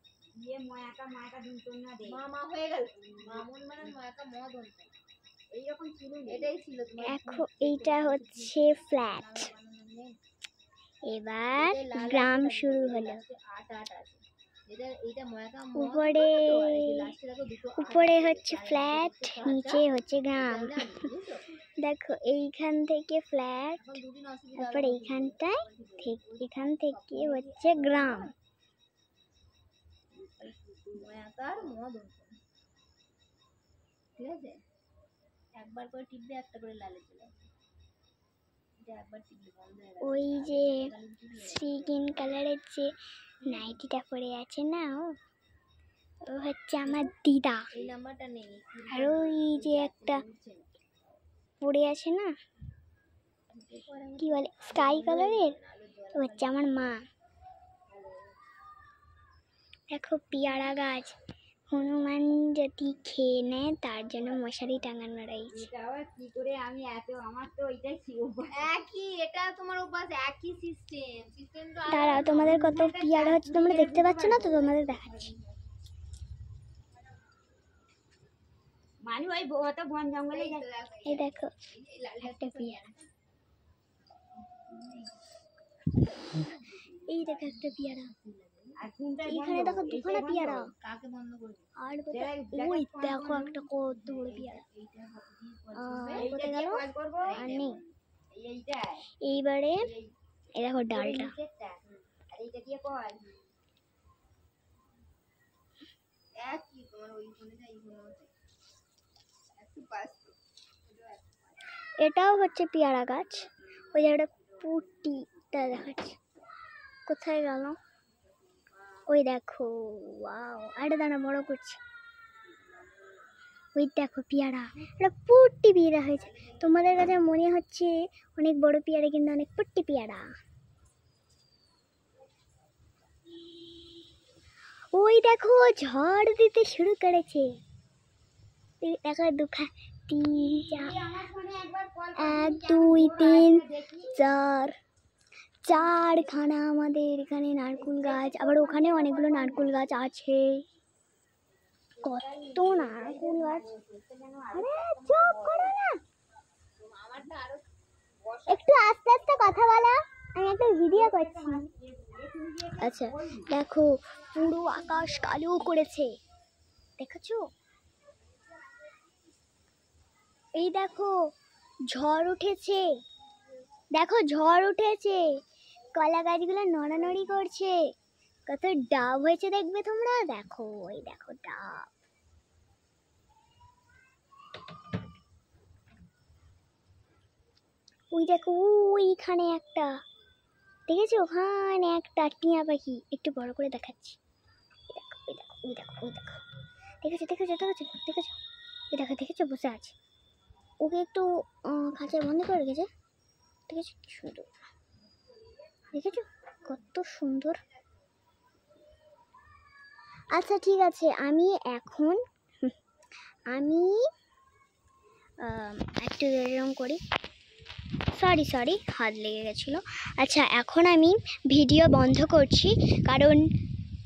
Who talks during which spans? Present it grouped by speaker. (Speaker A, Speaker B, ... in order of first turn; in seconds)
Speaker A: 0.3-2.2, 5.5-6.5, 65.5-68.7, 72.3-74.8, 79.0-80.7, 88.8-90.7, 92.1-93.7, 96.1-97.4, 98.3-99.0, 100.9-103.4, 140.7-144.2, 147.7-149.9, 152.0-155.8, 160.9-163.5
Speaker B: 2.0-5.0, 6.3-10.2, 11.5-21.5, 23.8-28.4, 30.3-32.4, 34.2-34.6, 35.5-37.4, 38.8-42.4, 47.7-50.9, 53.5-56.7, 64.0-64.7, 68.5-72.7, 74.5-75.6, 80.3-83.0, 84.5-85.2, 86.3-88.8, 90.8-91.7, 93.8-96.4, 97.2-97.9, 106.4-108.3, 109.6-111.4, 113.9-115.7, 118.5-119.0, 122.4-123.2, 126.1-127.3, 156.8-157.7, 158.2-158.7
Speaker C: 7.0-9.5, 11.1-13.2, 15.7-17.1, 17.8-21.1, 21.7-24.0, 24.6-28.3, 40.0-45.1, 46.3-47.7, 48.9-50.2, 51.6-52.3, 54.2-55.6, 56.1-57.1, 59.9-61.1, 61.7-65.7, 71.9-75.3, 81.1-81.5, 82.2-82.9, 87.1-88.1, 89.2-90.7, 91.8-94.6, 95.7-97.8, 99.2-99.9, 100.6-101.3, 112.0-116.2, 117.1-117.8, 119.1-121.8, 123.8-130.3, 134.9-137.5, 138.8-141.0, 142.2-144.8, 145.6-150.6, 152.0-153.7, 154.5-156.0, 158.5-161.7, 162.8-166.1, 167.0-167.4, 170.6-171.3, 171.9-172.9, 173.9-175.3, 175.9-177.8, 178.5-181.9, 188.1-190.0, 190.9-194.2, 194.9-196.4, 197.0-198.4, 198.9-200.0, 200.8-202.9, 203.7-204.5, 205.9-207.6, 210.3-212.7, 213.5-214.0, 215.4-217.0, 218.1-223.5